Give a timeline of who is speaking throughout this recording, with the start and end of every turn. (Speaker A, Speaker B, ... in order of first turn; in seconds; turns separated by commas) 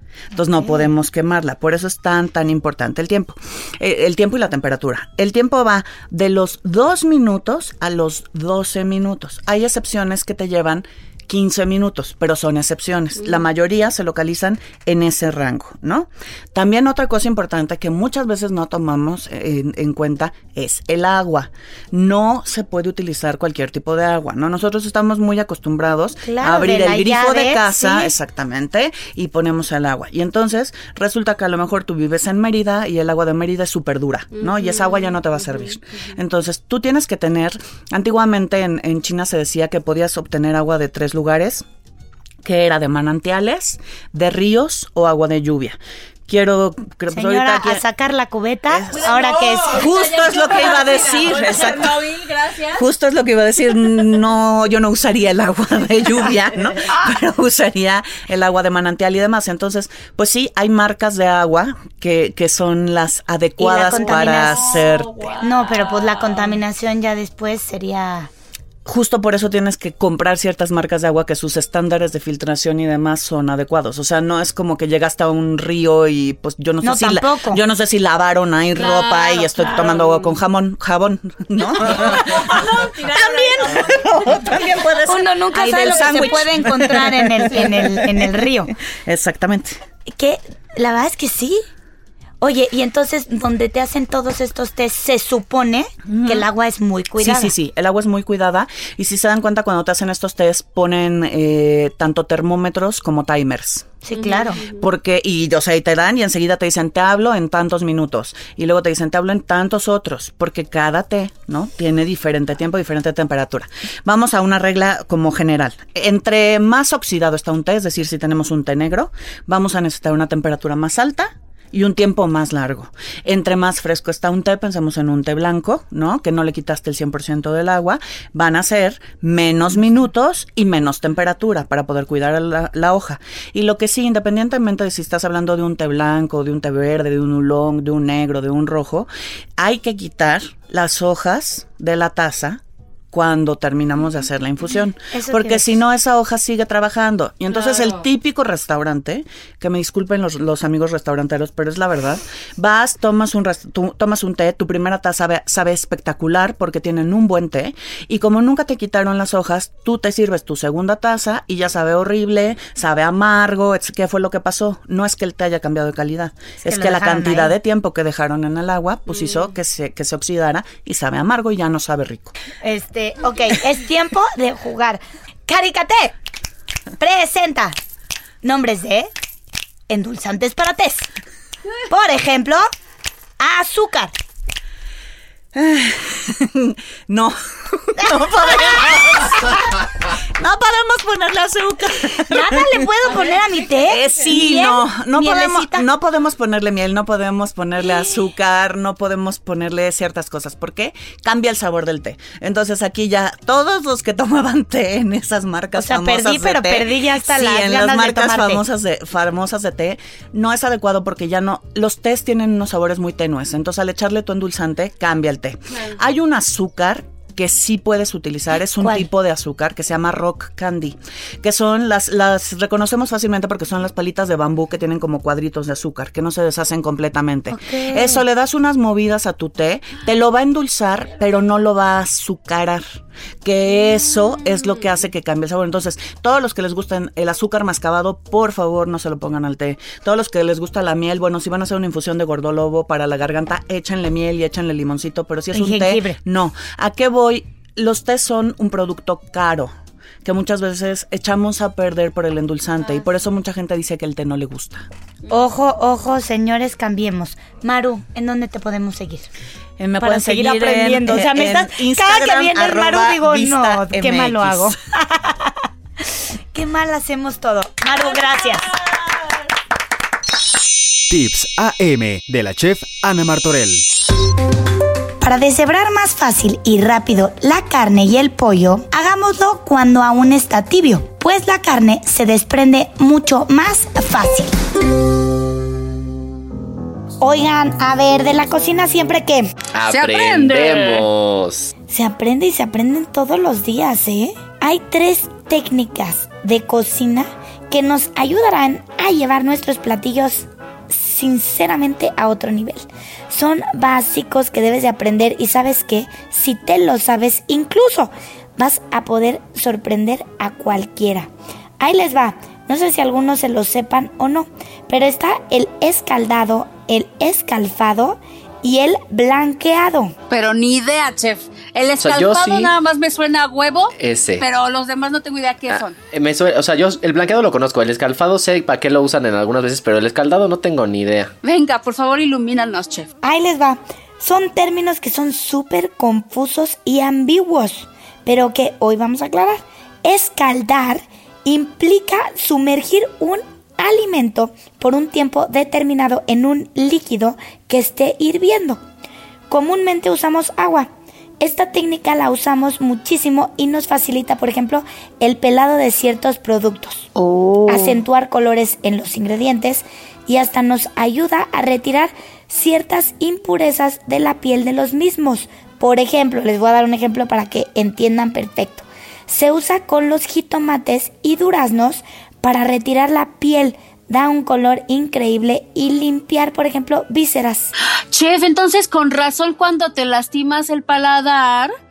Speaker A: 0.3-41.6, Speaker B: 0.6-0.9, Speaker B: 26.2-28.1, Speaker C: 34.4-35.1, Speaker A: 42.4-47.8, Speaker B: 47.1-49.9, Speaker A: 48.7-49.1, Speaker C: 48.9-52.8, Speaker A: 49.6-52.0, Speaker A: 52.7-65.3, Speaker B: 63.6-64.9, Speaker C: 63.9-66.5, Speaker B: 65.4-68.3, Speaker A: 68.8-88.5, Speaker B: 76.8-77.6, Speaker C: 78.8-80.0, Speaker C: 82.0-84.0, Speaker B: 83.1-83.9, Speaker B: 85.1-88.7, Speaker C: 85.5-86.3, Speaker A: 89.0-89.8, Speaker B: 90.0-91.6, Speaker B: 92.4-97.5, Speaker A: 96.1-96.5, Speaker A: 97.2-103.9, Speaker B: 104.0-104.6, Speaker C: 104.1-104.8, Speaker A: 104.8-142.6, Speaker A: 143.1-172.3, Speaker B: 145.1-145.7, Speaker B: 166.6-167.6, Speaker B: 172.6-176.1, Speaker B: 177.0-177.8, Speaker B: 178.4-179.1, Speaker B: 179.9-181.1, Speaker B: 181.9-182.7, Speaker B: 183.4-184.1, Speaker A: 185.5-189.8, Speaker B: 188.0-189.2, Speaker A: 190.4-192.7, Speaker B: 192.3-195.9, Speaker A: 193.8-232.8, Speaker B: 197.8-198.2, Speaker B: 205.7-208.6, Speaker C: 215.7-215.9, Speaker B: 218.8-219.1, Speaker B: 227.5-228.2, Speaker A: 233.4-249.7, Speaker B: 245.5-246.2, Speaker A: 250.2-254.9, Speaker B: 255.3-259.3, Speaker A: 259.8-264.7, Speaker B: 260.0-265.6, Speaker B: 266.5-268.7, Speaker D: 271.1-273.8, Speaker B: 275.2-284.5, Speaker B: 287.2-289.5, Speaker E: 289.7-291.7, Speaker C: 289.9-291.0, Speaker B: 291.9-320.1, Speaker C: 320.3-325.9, Speaker E: 322.0-322.7, Speaker E: 323.9-324.4, Speaker E: 325.7-331.3, Speaker C: 331.4-333.1, Speaker B: 333.2-348.8, Speaker B: 349.5-357.1, Speaker B: 357.6-377.7, Speaker C: 378.1-381.7